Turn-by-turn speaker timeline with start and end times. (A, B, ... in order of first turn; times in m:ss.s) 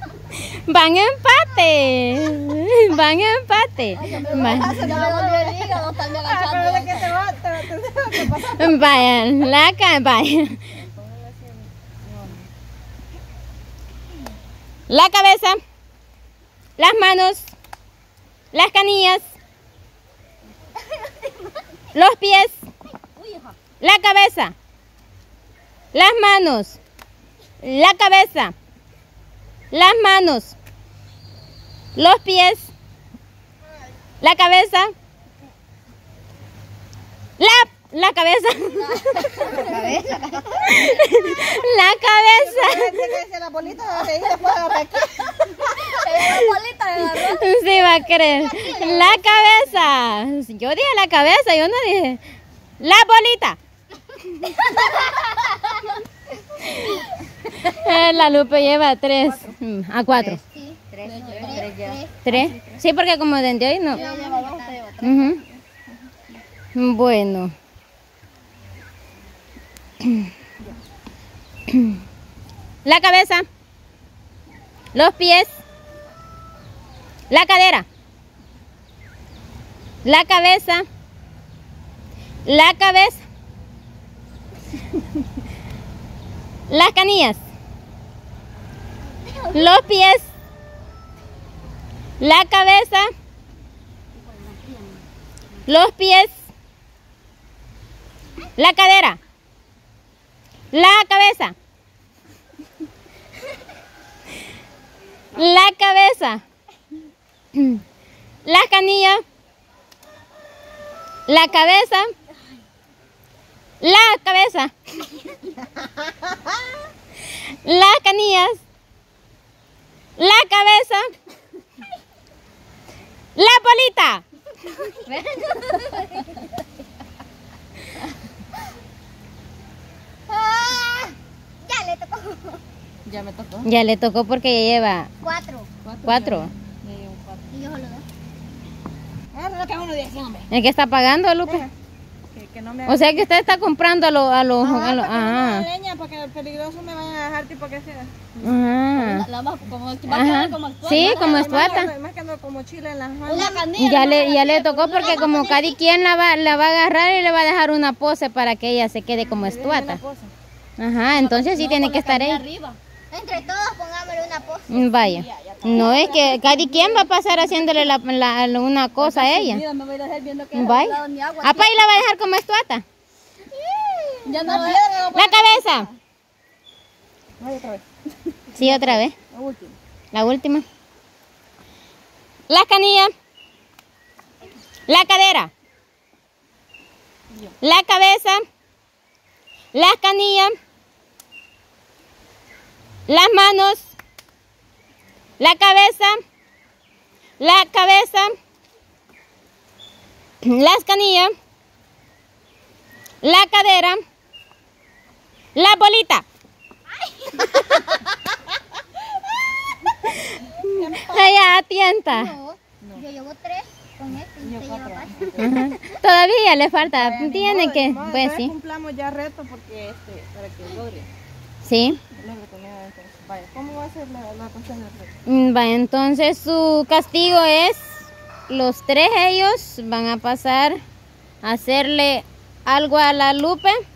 0:00.3-0:04.8 A
0:03.9-0:07.1 B
0:04.3-0:05.9 C
0:04.4-0:05.4 D
0:06.2-0:08.9 D
0:08.4-0:10.8 A
0:10.8-0:12.5 D
0:14.9-0:15.6 A
0:16.8-0:17.5 A
0:18.5-0:19.3 A
0:21.9-0:22.6 A
0:23.2-0:23.6 B
0:23.8-0:24.5 A
0:25.9-0:26.8 A
0:27.6-0:28.5 A
0:29.7-0:30.5 A
0:32.0-0:32.7 A
0:34.2-0:34.9 A
0:37.4-0:39.6 A
0:39.0-0:40.1 B
0:39.5-0:40.8 C
0:40.6-0:43.1 A
0:42.3-0:45.9 D
0:45.5-0:47.4 B
0:47.1-0:52.2 A
0:48.8-0:49.2 B
0:52.8-0:53.6 A
0:54.4-0:55.3 C
0:55.4-0:55.9 B
0:57.6-1:00.4 A
0:59.2-0:59.5 D
1:00.1-1:02.1 C
1:01.0-1:02.0 B
1:01.4-1:02.8 D
1:02.2-1:04.0 A
1:03.9-1:04.8 C
1:03.9-1:05.6 B
1:05.0-1:05.4 A
1:06.8-1:07.5 A
1:11.7-1:11.9 A
1:12.8-1:13.4 A
1:14.9-1:15.6 A
1:17.3-1:17.8 A
1:20.0-1:20.8 A
1:22.4-1:23.2 A
1:26.7-1:27.4 A
1:29.2-1:29.6 C
1:29.5-1:30.3 A
1:32.2-1:33.1 A
1:34.2-1:34.9 C
1:35.7-1:36.3 A
1:38.6-1:39.2 A
1:40.7-1:41.5 A
1:45.3-1:46.4 A
1:47.5-1:47.8 A
1:48.4-1:49.2 A
1:51.3-1:52.1 A
1:53.8-1:55.2 A
1:57.3-1:58.6 A
2:00.2-2:01.1 A
2:03.4-2:04.2 A
2:04.8-2:06.5 C
2:10.3-2:12.6 C
2:13.0-2:13.7 D
2:13.6-2:15.1 A
2:15.2-2:15.7 C
2:15.8-2:17.4 D
2:16.0-2:16.5 A
2:17.5-2:18.0 C
2:19.3-2:20.5 D
2:20.5-2:21.6 A
2:21.4-2:21.7 D
2:22.3-2:23.3 D
2:22.9-2:25.6 A
2:24.6-2:25.0 C
2:24.6-2:28.2 D
2:28.4-2:29.2 A
2:29.0-2:31.9 B
2:30.1-2:31.9 A
2:30.9-2:33.6 D
2:33.2-2:35.6 B
2:33.3-2:33.7 C
2:33.8-2:40.0 A
2:35.0-2:35.7 C
2:39.2-2:40.3 D
2:40.8-2:42.4 A
2:41.1-2:42.8 B
2:43.1-2:44.8 C
2:44.7-2:46.4 D
2:44.7-2:49.6 A
2:45.7-2:47.0 B
2:49.0-2:51.9 B
2:50.5-2:52.8 A
2:53.8-2:54.1 C
2:54.2-2:55.9 B
2:54.4-2:55.0 D
2:55.1-2:55.9 A
2:57.4-2:57.8 D
2:58.5-2:59.8 B
2:58.5-2:59.1 A
3:00.1-3:00.6 A
3:02.5-3:03.1 A
3:04.9-3:05.5 A
3:07.6-3:08.4 A
3:09.7-3:10.5 A
3:13.1-3:13.9 A
3:15.4-3:16.2 A
3:17.4-3:18.3 A
3:20.4-3:21.3 A
3:23.2-3:24.0 A
3:25.5-3:26.2 A
3:30.6-3:31.5 D
3:31.0-3:32.3 A
3:32.1-3:35.8 C
3:34.4-3:35.7 D
3:35.4-3:38.5 A
3:36.9-3:41.1 D
3:41.6-3:42.0 A
3:42.1-3:45.1 D
3:45.3-3:50.8 A
3:51.4-3:53.8 A